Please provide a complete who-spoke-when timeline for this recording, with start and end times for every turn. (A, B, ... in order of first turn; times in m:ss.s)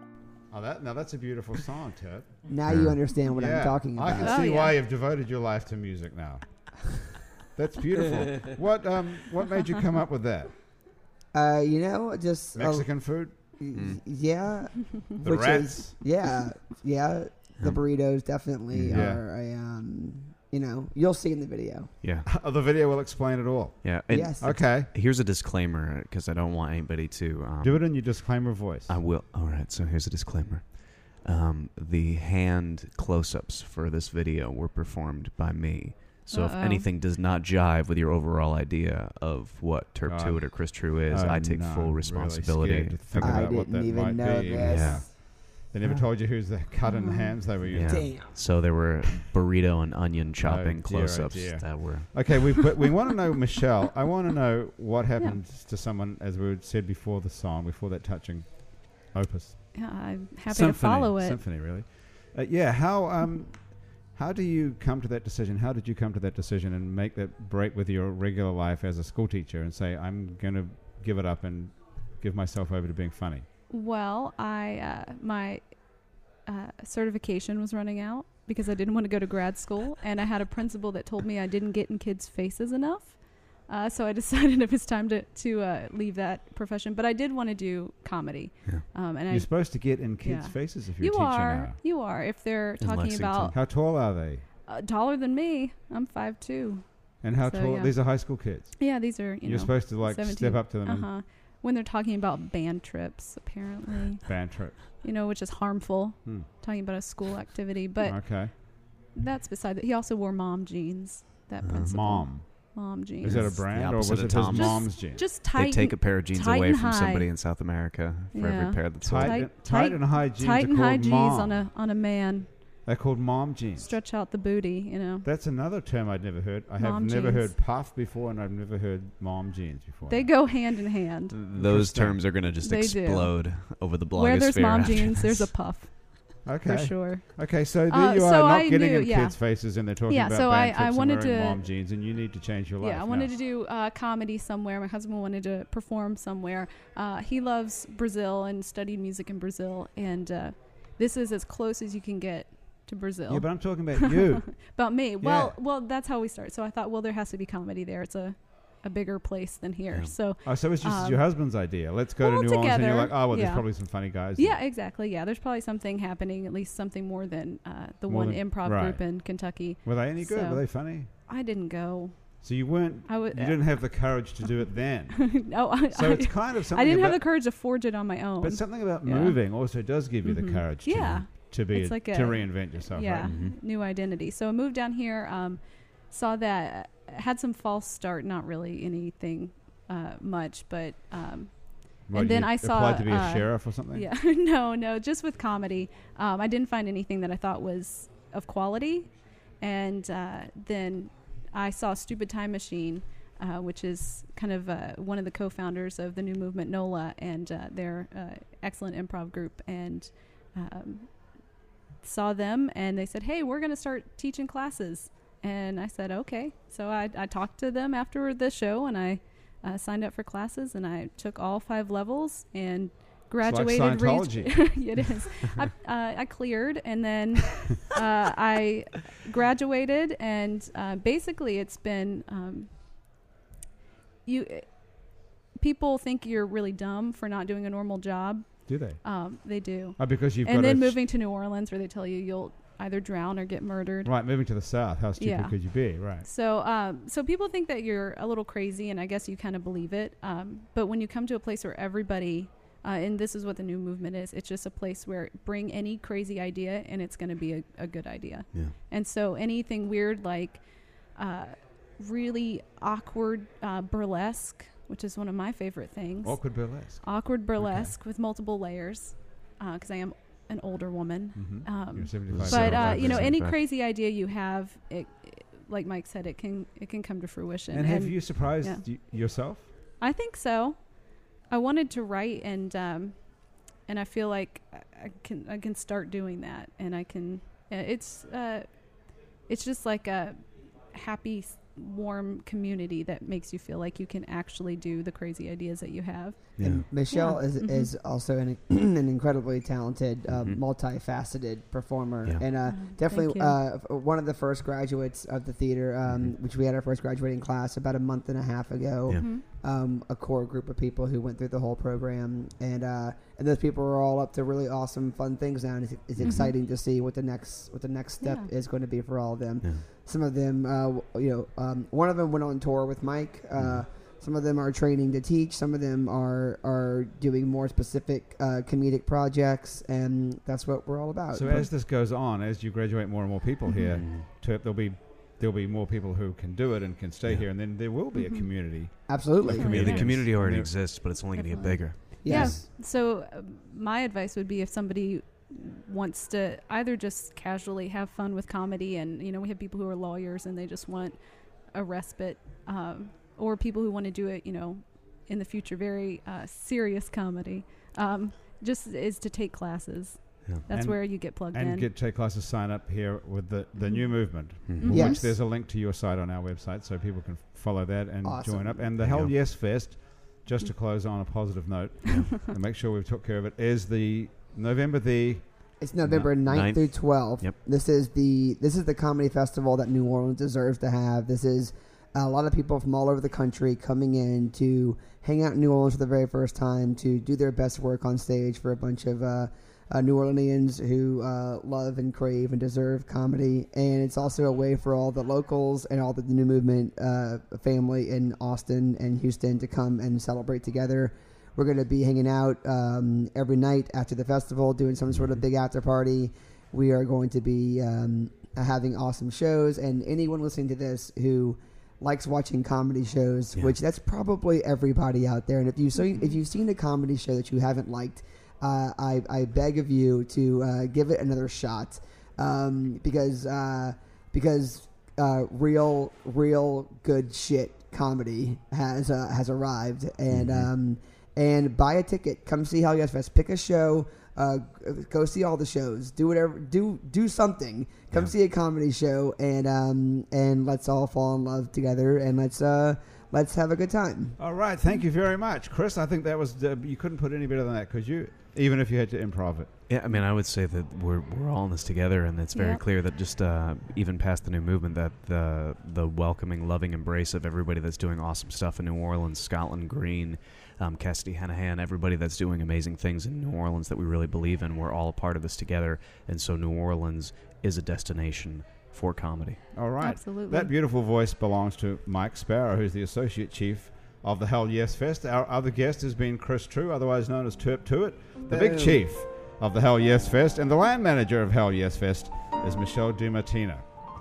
0:00.5-0:06.4 A
0:02.5-0:04.4 B
0:04.2-0:04.8 C
0:07.5-0:10.5 A
0:11.3-0:12.9 B
0:12.5-0:13.4 A
0:13.6-0:21.9 B
0:13.7-0:14.0 D
0:15.2-0:16.0 A
0:18.7-0:19.1 D
0:18.9-0:19.2 A
0:22.0-0:22.3 D
0:22.2-0:24.9 A
0:23.8-0:27.9 D
0:24.1-0:24.5 B
0:27.6-0:29.0 A
0:28.9-0:43.5 D
0:36.3-0:36.9 C
0:40.0-0:48.1 A
0:43.2-0:45.1 B
0:44.5-0:45.0 D
0:46.8-0:47.3 C
0:47.7-0:52.6 D
0:47.8-0:48.4 B
0:50.4-0:59.8 A
0:59.7-1:01.4 C
1:00.5-1:13.5 A
1:13.7-1:15.6 C
1:16.4-1:33.6 C
1:29.3-1:31.8 A
1:32.8-1:33.6 D
1:33.5-1:34.4 A
1:34.7-1:44.2 C
1:37.2-1:41.1 A
1:44.2-1:44.8 A
1:45.0-1:48.4 C
1:48.0-1:48.5 A
1:49.1-1:53.6 C
1:51.6-1:51.9 D
1:51.8-1:52.4 A
1:53.2-1:55.2 A
1:53.2-1:59.5 D
1:54.5-1:57.3 C
1:58.3-2:02.5 C
1:59.0-2:01.7 A
2:02.8-2:03.9 A
2:03.8-2:05.2 C
2:05.2-2:10.3 A
2:06.8-2:07.5 C
2:10.1-2:11.4 C
2:11.3-2:15.5 D
2:11.5-2:12.4 A
2:12.6-2:13.6 C
2:14.1-2:19.4 C
2:16.4-2:23.3 A
2:20.1-2:21.6 C
2:22.8-2:41.2 C
2:33.3-2:34.6 A
2:35.2-2:35.6 A
2:40.4-2:44.6 A
2:42.2-2:43.7 C
2:44.4-2:50.6 C
2:48.1-2:49.0 A
2:49.8-2:51.1 A
2:51.3-2:52.4 C
2:52.4-2:57.2 A
2:53.1-2:53.8 C
2:55.1-2:59.4 C
2:58.4-3:03.3 A
3:00.2-3:19.1 C
3:00.9-3:01.2 D
3:03.2-3:03.6 D
3:12.1-3:14.1 A
3:19.6-3:31.1 C
3:32.0-3:52.7 C
3:43.4-3:44.6 A
3:54.2-3:54.7 C
3:55.6-4:04.1 C
3:58.7-3:59.0 A
4:00.0-4:01.0 A
4:04.0-4:06.2 A
4:05.2-4:05.5 C
4:06.2-4:20.6 C
4:21.2-4:26.4 C
4:26.2-4:27.0 A
4:27.0-4:38.8 C
4:31.3-4:33.3 A
4:32.3-4:33.6 D
4:37.7-4:39.7 A
4:40.0-4:40.8 C
4:41.5-4:43.2 C
4:43.9-4:48.7 C
4:49.5-4:50.4 C
4:50.9-4:56.6 C
4:56.6-4:56.8 D
4:56.6-5:31.6 B
4:57.1-4:57.9 C
5:00.3-5:00.6 D
5:02.6-5:03.6 C
5:06.1-5:06.3 D
5:09.2-5:09.4 C
5:16.2-5:16.5 D
5:16.2-5:16.5 C
5:18.2-5:18.5 C
5:23.6-5:23.8 D
5:31.3-5:40.8 A
5:33.7-5:34.0 C
5:33.8-5:34.3 D
5:38.1-5:38.4 C
5:39.1-5:40.0 B
5:39.6-5:42.6 D
5:39.6-5:40.0 C
5:41.4-5:51.2 C
5:42.2-5:42.6 B
5:51.7-6:01.9 C
6:00.7-6:15.4 A
6:04.7-6:05.0 D
6:04.8-6:05.2 C
6:04.9-6:05.2 B
6:08.2-6:08.9 B
6:09.0-6:09.3 D
6:12.0-6:12.3 D
6:15.8-7:24.4 B
6:16.0-6:17.6 D
6:45.1-6:45.3 D
7:10.3-7:10.7 D
7:24.4-7:29.7 A
7:29.9-7:49.6 D
7:32.5-7:32.8 C
7:49.7-8:03.8 A
7:50.0-7:50.7 C
7:58.5-7:59.0 B